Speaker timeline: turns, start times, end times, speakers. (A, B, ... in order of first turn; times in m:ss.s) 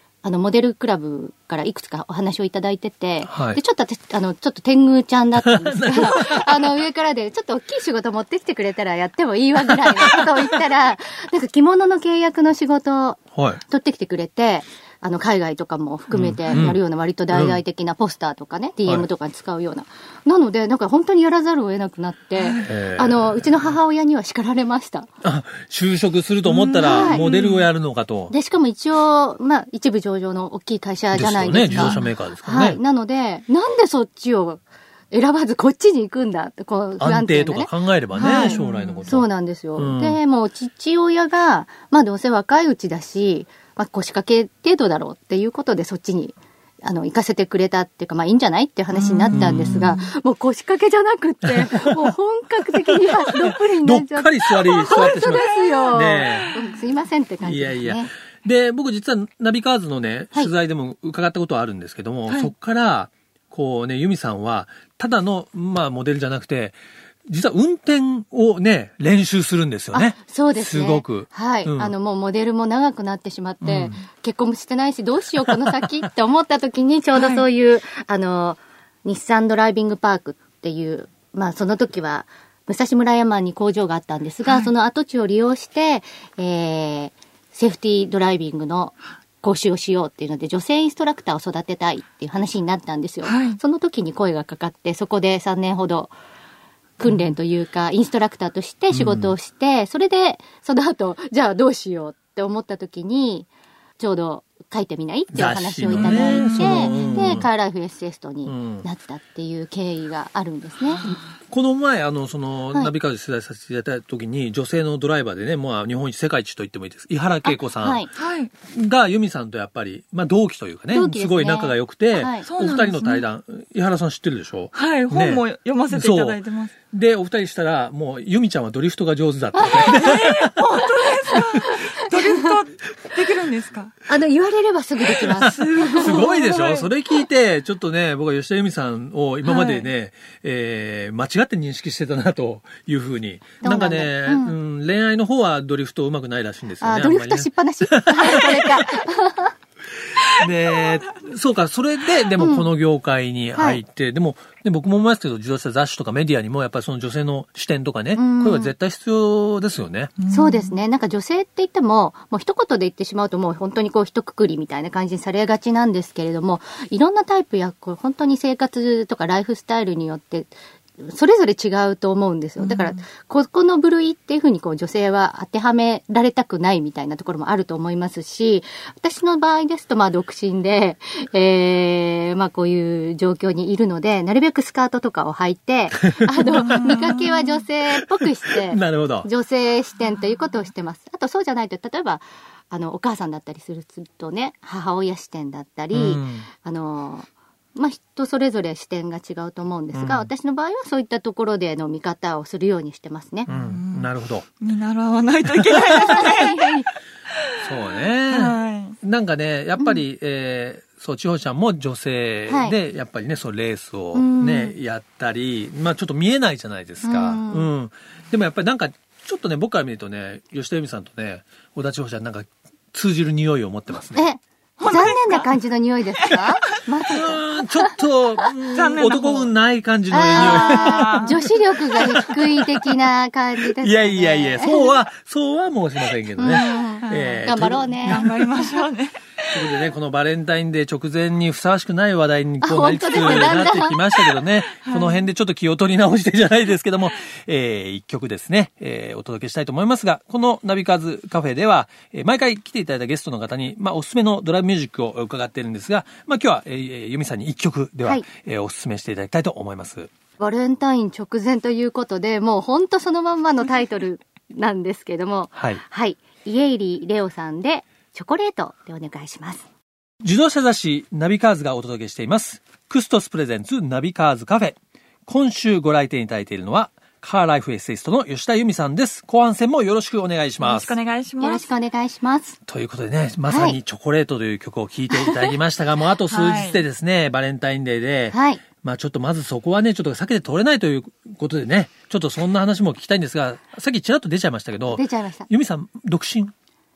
0:00.2-0:25.1 A
0:03.3-0:03.6 B
0:05.4-0:06.7 B
0:09.8-0:10.2 B
0:13.4-0:13.6 B
0:16.1-0:16.8 B
0:17.3-0:17.6 B
0:22.4-0:22.7 C
0:22.6-0:23.8 B
0:25.2-0:28.3 B
0:26.5-0:27.7 C
0:26.8-0:27.2 A
0:28.3-0:58.1 A
0:31.1-0:32.8 B
0:31.7-0:32.0 C
0:37.0-0:40.2 B
0:38.2-0:39.0 C
0:48.9-0:50.1 C
0:49.3-0:49.9 B
0:51.5-0:52.1 B
0:52.9-0:56.5 B
0:54.9-0:56.7 C
0:57.4-1:11.9 B
1:09.9-1:36.1 A
1:13.6-1:14.0 B
1:17.2-1:17.5 C
1:24.5-1:24.7 C
1:33.2-1:33.6 C
1:37.0-1:51.0 A
1:38.9-1:39.3 B
1:45.3-1:47.5 B
1:45.9-1:47.3 C
1:48.5-1:48.9 B
1:51.1-1:58.1 B
1:57.4-1:58.1 A
1:58.2-1:58.5 C
1:58.7-2:10.6 B
2:00.9-2:02.5 A
2:02.4-2:03.3 C
2:04.7-2:06.7 C
2:09.6-2:10.0 A
2:09.8-2:13.9 C
2:11.8-2:12.5 A
2:14.1-2:16.3 A
2:15.2-2:16.9 C
2:15.8-2:28.8 B
2:19.4-2:19.9 C
2:23.6-2:24.6 A
2:26.8-2:29.5 A
2:30.2-2:40.1 B
2:30.3-2:30.9 C
2:32.4-2:32.7 A
2:33.6-2:33.8 A
2:38.2-2:38.7 A
2:40.2-2:40.8 C
2:40.3-3:23.5 A
2:52.6-2:53.0 C
3:06.1-3:07.2 B
3:06.6-3:07.5 C
3:08.5-3:09.3 B
3:10.1-3:10.5 C
3:15.9-3:16.5 B
3:19.9-3:20.3 B
3:23.5-3:24.5 B
3:23.5-3:24.1 C
3:24.6-3:26.7 C
3:25.8-3:26.3 B
3:26.1-3:26.9 A
3:27.6-3:29.0 C
3:27.6-3:44.3 B
3:29.8-3:30.0 A
3:32.5-3:32.8 A
3:34.1-3:34.8 A
3:37.0-3:37.7 A
3:44.1-3:48.0 A
3:44.8-3:45.5 C
3:47.1-3:51.4 B
3:48.7-3:49.6 C
3:50.1-3:55.0 A
3:50.3-3:51.6 C
3:52.0-3:52.9 B
3:53.7-3:58.6 B
3:56.4-3:58.3 A
3:56.4-3:59.8 C
3:59.5-4:20.1 B
4:02.6-4:04.4 A
4:04.8-4:05.3 C
4:20.4-4:29.6 A
4:25.6-4:25.8 B
4:30.2-4:41.0 B
4:40.6-4:41.7 C
4:41.4-4:42.6 A
4:42.7-4:56.5 B
4:43.5-4:43.8 A
4:46.3-4:46.8 C
4:48.3-4:48.6 A
4:54.9-4:55.5 A